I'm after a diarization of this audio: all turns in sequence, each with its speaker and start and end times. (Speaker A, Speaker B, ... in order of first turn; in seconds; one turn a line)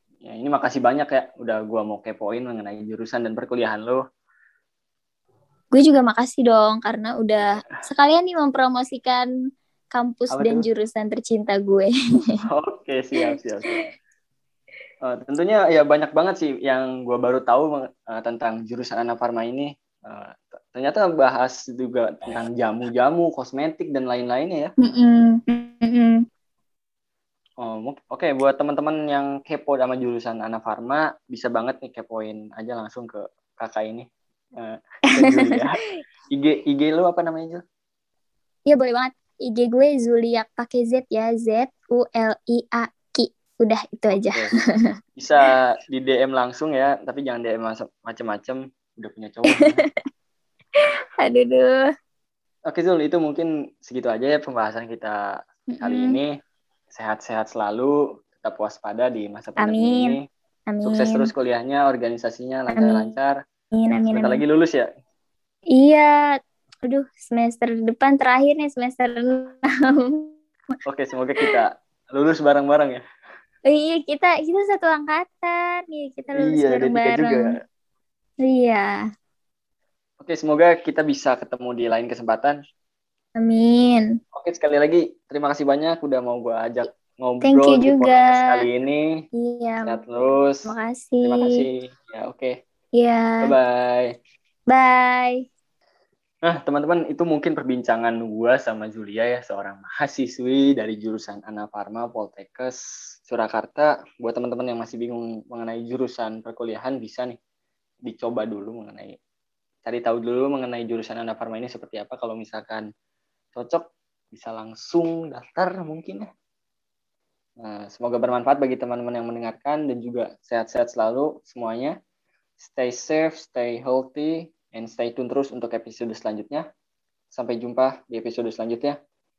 Speaker A: 0.2-4.0
Speaker B: 5.7-9.3
Speaker B: 9.9-12.4
Speaker A: 10.3-10.7
Speaker A: 12.5-13.8
Speaker A: 15.1-24.7
Speaker B: 24.8-26.2
Speaker A: 27.6-35.8
Speaker B: 35.1-35.6
Speaker A: 36.3-37.6
Speaker B: 38.7-44.9
Speaker A: 44.1-44.5
Speaker A: 45.2-49.8
Speaker B: 49.5-49.9
Speaker B: 50.8-51.8
Speaker A: 52.7-55.2
Speaker B: 55.7-56.2
Speaker A: 55.8-56.4
Speaker A: 56.9-60.2
Speaker B: 59.6-60.2
Speaker B: 60.7-61.3
Speaker A: 60.8-63.4
Speaker B: 62.7-63.0
Speaker B: 63.7-64.4
Speaker A: 64.1-64.9
Speaker B: 65.7-66.2
Speaker B: 66.8-70.8
Speaker A: 70.8-73.0
Speaker B: 73.7-77.5
Speaker A: 76.3-77.6
Speaker B: 78.4-79.0
Speaker A: 80.2-82.6
Speaker B: 83.4-84.1
Speaker A: 84.3-89.1
Speaker B: 87.4-88.5
Speaker B: 89.3-90.0
Speaker A: 89.8-90.7
Speaker B: 90.7-91.6
Speaker A: 91.2-92.6
Speaker B: 93.0-93.5
Speaker A: 93.4-94.1
Speaker B: 94.7-95.4
Speaker A: 96.4-107.4
Speaker A: 108.0-109.2
Speaker A: 109.8-112.9
Speaker A: 113.5-116.3
Speaker A: 117.6-122.0
Speaker A: 122.6-126.7
Speaker A: 127.3-129.0